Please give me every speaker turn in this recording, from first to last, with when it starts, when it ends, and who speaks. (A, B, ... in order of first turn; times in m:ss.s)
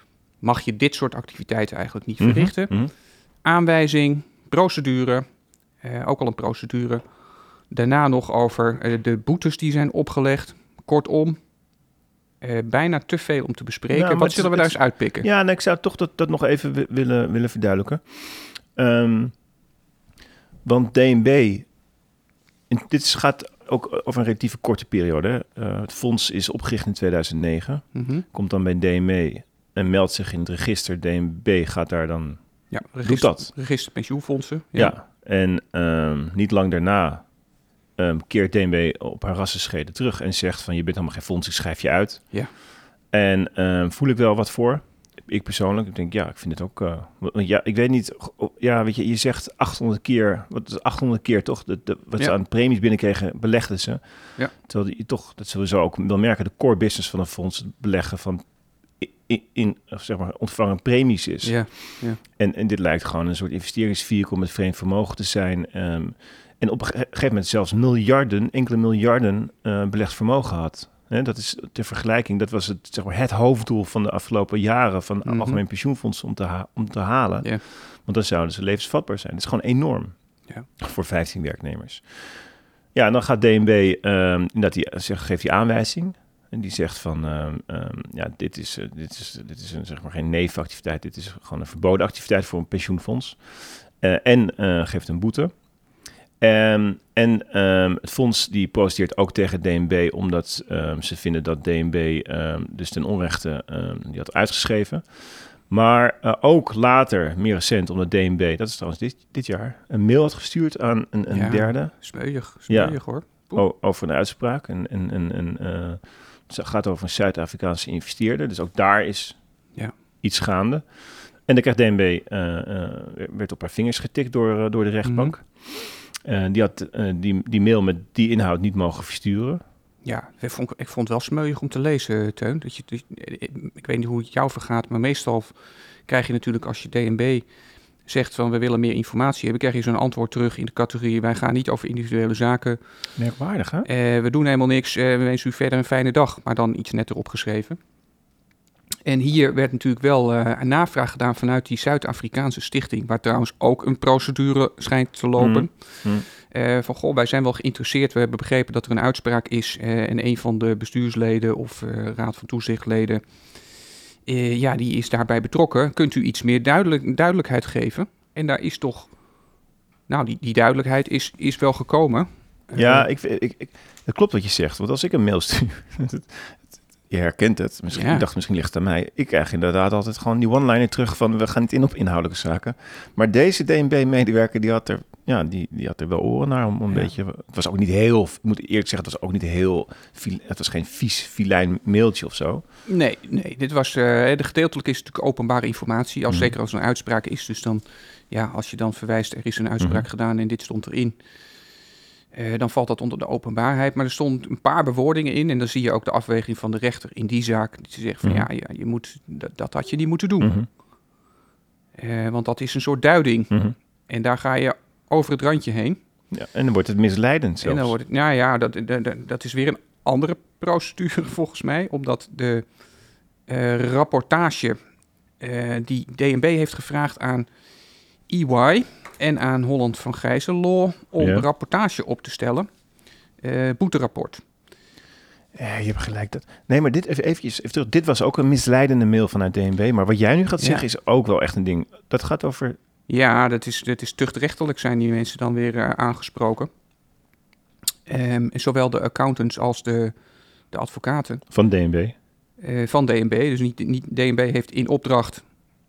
0:00.4-0:02.8 A
0:02.2-0:02.9 B
0:03.4-0:05.2 A
0:05.8-0:07.0 A
0:07.7-0:11.4 A
0:12.4-0:15.3 A
0:13.9-0:19.4 B
0:20.6-0:21.8 B
0:22.7-0:33.5 B
0:27.9-0:28.3 A
0:32.7-0:35.0 A
0:34.8-0:37.4 B
0:38.0-0:42.6 B
0:43.1-1:20.2 B
1:01.4-1:02.2 A
1:15.2-1:15.6 A
1:20.8-1:35.6 B
1:36.4-1:59.4 B
1:51.3-1:53.6 A
2:00.2-2:09.6 B
2:05.0-2:05.4 A
2:10.0-2:17.5 A
2:18.0-2:22.8 A
2:23.2-2:23.9 B
2:23.8-2:27.8 A
2:29.1-2:43.2 A
2:35.4-2:36.3 B
2:44.2-2:49.2 A
2:50.1-2:53.1 A
2:52.8-3:12.6 B
2:57.9-2:58.3 A
3:06.9-3:07.1 A
3:12.9-3:21.2 A
3:16.3-3:16.6 B
3:19.8-3:20.1 B
3:22.3-3:30.5 A
3:28.2-3:28.5 B
3:30.4-3:30.7 B
3:32.0-3:36.0 A
3:36.3-3:38.0 B
3:37.6-3:42.7 A
3:43.5-3:44.8 A
3:45.4-3:47.5 A
3:48.3-3:52.7 A
3:51.2-3:51.5 B
3:53.4-3:54.4 A
3:55.6-4:02.8 B
4:00.6-4:00.8 A
4:03.1-4:06.7 A
4:08.1-4:10.1 A
4:10.7-4:11.4 A
4:11.5-4:12.1 B
4:12.6-4:15.5 A